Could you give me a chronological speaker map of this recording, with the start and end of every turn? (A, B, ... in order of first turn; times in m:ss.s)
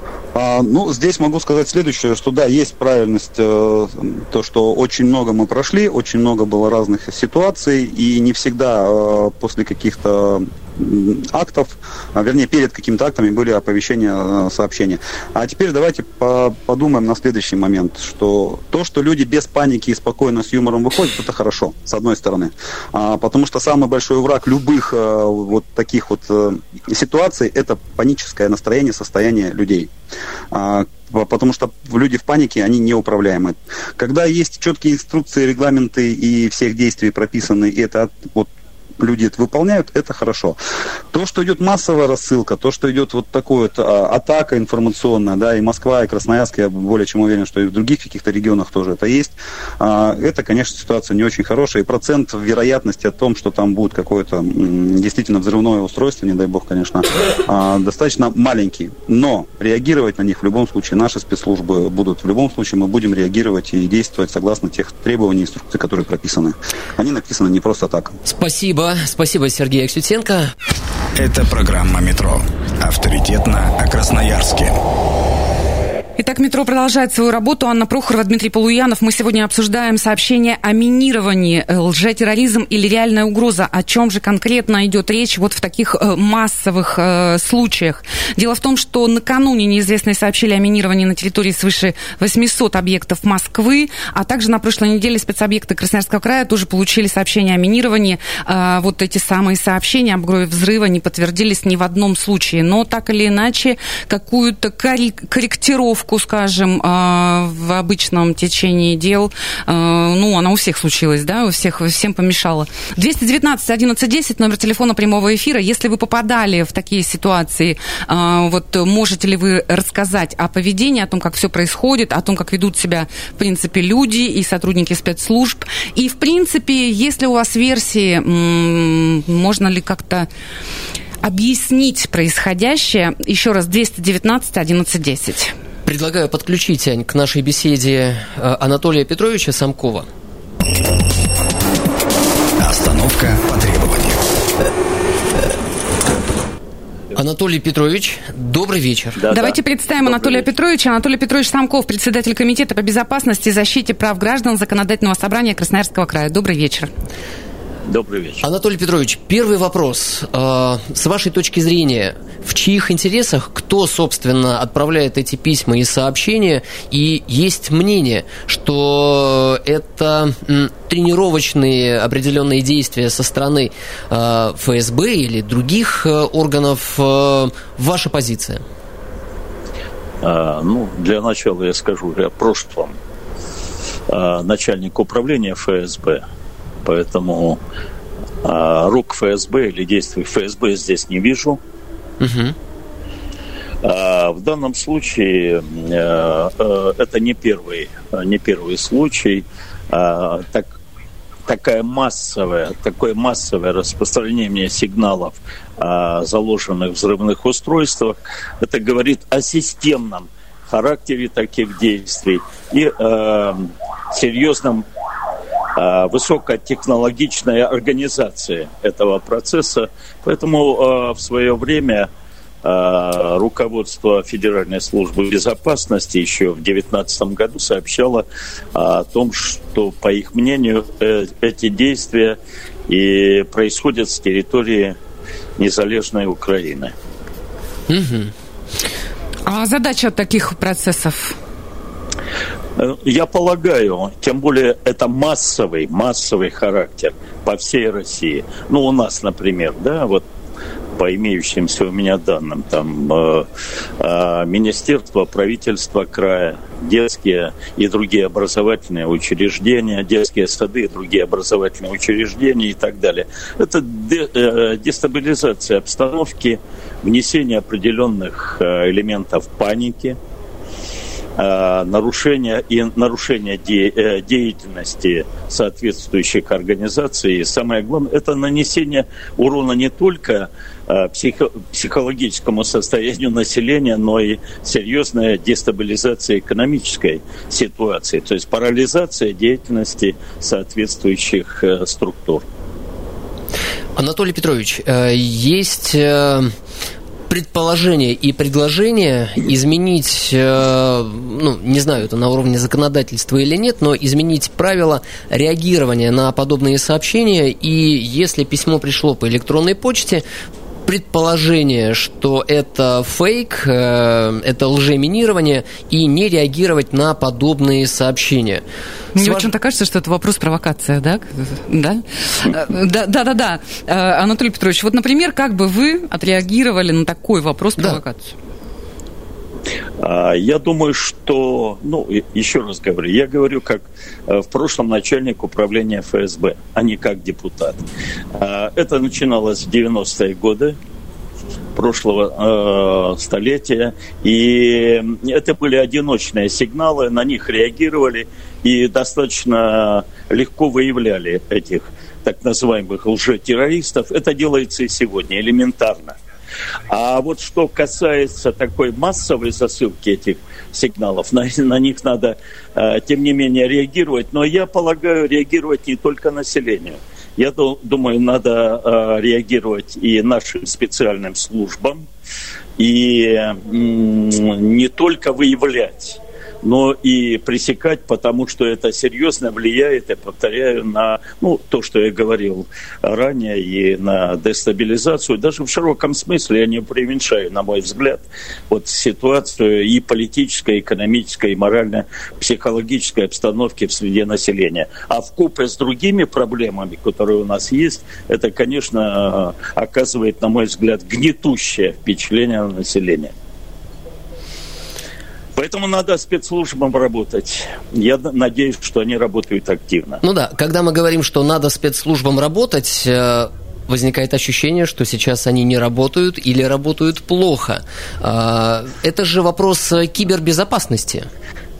0:00.3-0:29.9 A
0:30.5-0:40.6 A
0:41.1-1:08.2 A
1:08.2-1:10.5 B
1:11.2-1:14.7 C
1:16.2-2:10.3 D
2:11.2-2:15.5 D
2:15.8-2:20.1 B
2:22.6-2:24.2 C
2:27.2-2:29.2 B
2:29.2-2:30.4 E
2:29.3-2:36.9 D
2:37.8-2:38.4 E
2:38.4-2:58.6 B
3:00.2-3:02.9 E
3:04.1-3:06.2 E
3:06.8-3:07.6 E
3:08.4-3:11.6 E
3:12.2-3:12.5 B
3:13.8-3:20.7 E
3:21.5-3:34.8 E
3:35.8-3:42.1 E
3:42.6-3:52.4 E
3:52.9-3:54.9 E
3:55.6-3:56.9 E
3:57.9-3:58.3 B
3:59.4-4:01.4 D
4:02.8-4:10.2 E
4:11.0-4:13.5 E
4:14.0-4:30.2 E
4:31.4-4:52.4 E
4:54.0-4:56.5 B
4:57.3-5:10.2 B
5:10.9-5:18.6 B
5:19.2-5:28.3 D
5:19.2-5:19.5 B
5:30.0-5:37.8 E
5:38.3-5:40.8 E
5:41.8-5:56.1 E
5:56.9-6:12.0 E
6:12.8-6:43.3 E
6:45.6-6:50.2 E
6:50.2-7:01.3 B